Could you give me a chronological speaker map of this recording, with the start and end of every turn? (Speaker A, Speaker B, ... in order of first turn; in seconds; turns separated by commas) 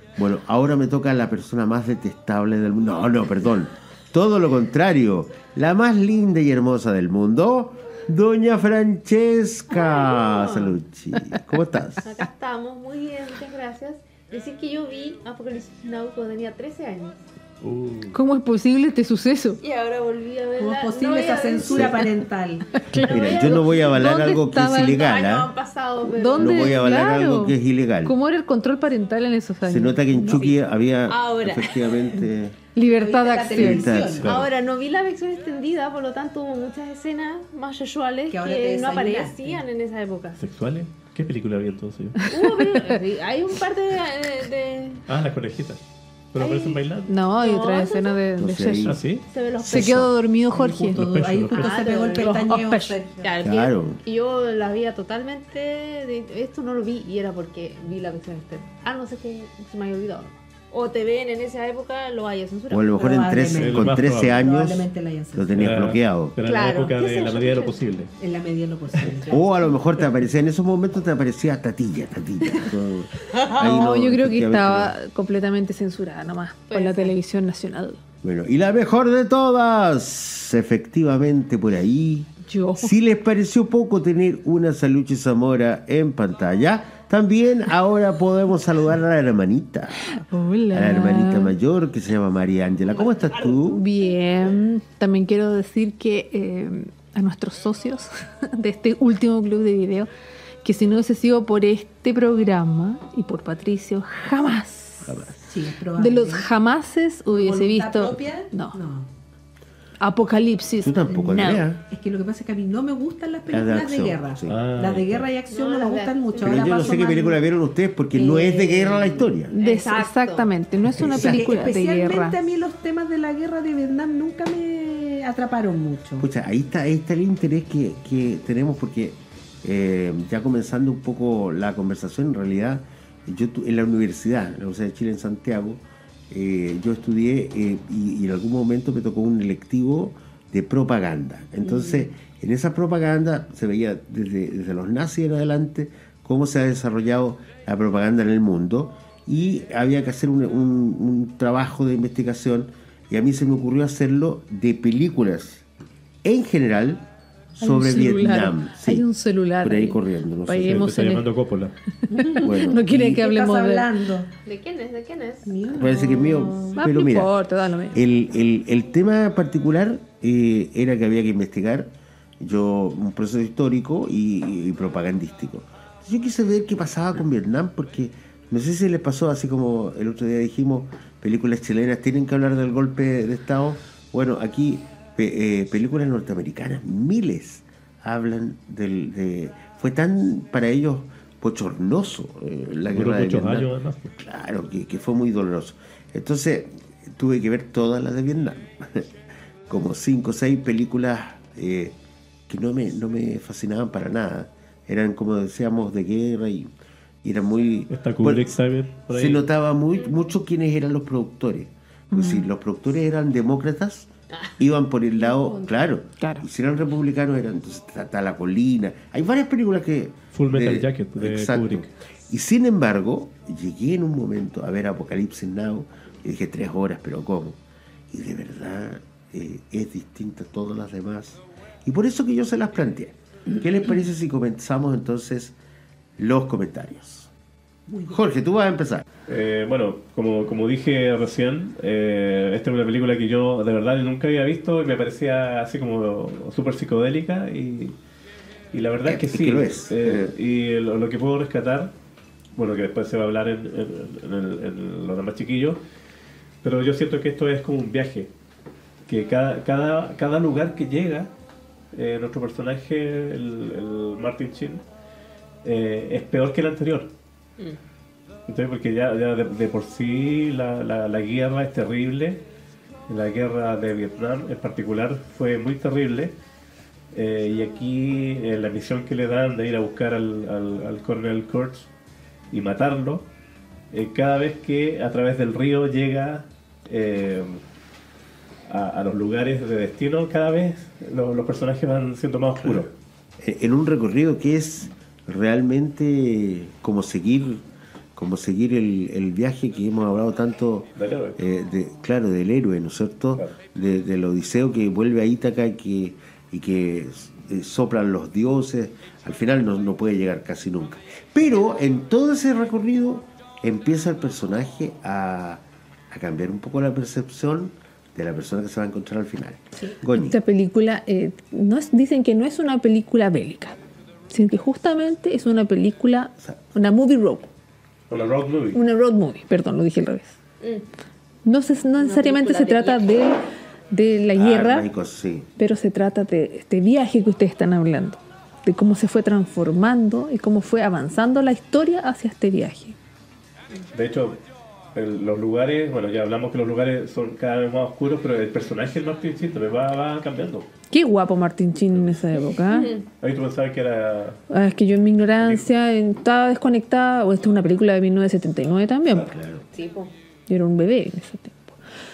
Speaker A: 0.2-12.1, Speaker B: 9.7-10.8, Speaker B: 12.0-17.2, Speaker C: 17.6-18.2, Speaker D: 18.1-19.6, Speaker B: 19.6-22.1, Speaker E: 20.6-22.8, Speaker A: 21.6-22.0, Speaker B: 22.9-24.0, Speaker A: 23.1-25.5, Speaker D: 24.0-25.0, Speaker B: 24.8-26.8, Speaker D: 26.0-30.5, Speaker A: 26.4-28.1, Speaker A: 29.7-32.6, Speaker B: 31.1-32.0, Speaker D: 32.8-33.9, Speaker E: 32.8-34.3, Speaker A: 33.5-34.5, Speaker B: 34.2-40.4, Speaker E: 38.3-39.6, Speaker C: 40.4-42.2, Speaker B: 42.3-45.0, Speaker C: 45.1-45.8, Speaker C: 46.3-47.1, Speaker B: 46.4-46.8, Speaker D: 47.1-48.9, Speaker B: 47.3-48.2, Speaker A: 48.4-49.0, Speaker C: 48.9-49.2, Speaker B: 49.3-50.0, Speaker A: 49.6-50.1, Speaker D: 49.6-51.0, Speaker E: 50.5-53.3, Speaker C: 50.9-51.7, Speaker B: 51.5-52.4, Speaker D: 52.2-53.0, Speaker B: 53.2-63.4, Speaker A: 53.4-54.0, Speaker A: 62.7-66.3, Speaker E: 62.9-65.7, Speaker C: 63.5-64.5, Speaker C: 65.6-68.1, Speaker B: 66.4-67.8, Speaker E: 68.2-69.6, Speaker A: 69.3-74.9, Speaker D: 73.6-78.0, Speaker B: 76.7-77.1, Speaker A: 78.2-90.2, Speaker D: 82.5-82.9, Speaker D: 90.1-91.5, Speaker A: 90.7-93.8, Speaker D: 93.6-100.1, Speaker D: 100.6-105.2, Speaker A: 105.0-105.4, Speaker E: 105.5-106.5, Speaker D: 106.0-108.8, Speaker E: 107.3-109.1, Speaker D: 110.0-111.7, Speaker A: 110.8-111.8, Speaker E: 111.9-117.4, Speaker A: 113.5-114.6, Speaker C: 114.5-115.3, Speaker B: 115.5-117.1, Speaker A: 116.4-119.5, Speaker B: 118.2-120.5, Speaker D: 119.5-122.4, Speaker A: 121.0-121.5, Speaker E: 121.1-126.3, Speaker A: 126.2-155.6, Speaker A: 156.2-157.0, Speaker A: 157.6-159.1, Speaker D: 157.6-161.3, Speaker A: 159.6-160.9, Speaker C: 160.7-161.8, Speaker D: 162.1-163.9, Speaker E: 162.1-164.3, Speaker A: 162.4-163.2, Speaker B: 164.4-165.6, Speaker E: 165.4-166.8, Speaker A: 165.8-167.3, Speaker D: 166.8-168.0, Speaker A: 167.9-199.1, Speaker C: 192.9-194.1, Speaker A: 199.7-201.9, Speaker A: 202.5-206.7, Speaker A: 207.2-208.5, Speaker C: 207.9-209.4, Speaker A: 209.1-227.6, Speaker D: 212.1-212.5, Speaker B: 215.2-215.8, Speaker D: 216.2-216.4, Speaker C: 220.3-221.9, Speaker A: 228.1-235.6, Speaker A: 236.2-237.3, Speaker E: 237.9-238.2, Speaker A: 238.1-239.1, Speaker C: 239.3-247.9, Speaker C: 248.7-251.9, Speaker A: 249.1-250.3, Speaker C: 252.6-255.8, Speaker C: 256.6-258.3, Speaker C: 259.1-261.3, Speaker C: 261.9-264.8, Speaker C: 265.6-267.1, Speaker C: 268.5-272.4, Speaker C: 273.1-276.3, Speaker C: 277.1-281.9, Speaker C: 282.5-283.3, Speaker C: 283.9-287.6, Speaker C: 288.7-292.9, Speaker A: 293.4-297.6, Speaker A: 298.1-320.4, Speaker C: 301.0-301.4, Speaker D: 320.2-323.8, Speaker D: 324.3-327.5, Speaker C: 328.1-328.8, Speaker D: 328.7-330.4, Speaker D: 331.4-334.9, Speaker B: 332.0-333.1, Speaker A: 334.3-335.5, Speaker D: 335.6-343.0, Speaker C: 343.9-344.4, Speaker C: 344.9-350.7, Speaker D: 350.9-352.9, Speaker B: 352.7-353.1, Speaker C: 353.2-354.4, Speaker D: 354.5-359.3, Speaker C: 355.4-355.7, Speaker A: 359.1-359.6, Speaker B: 359.7-360.1, Speaker D: 360.5-361.8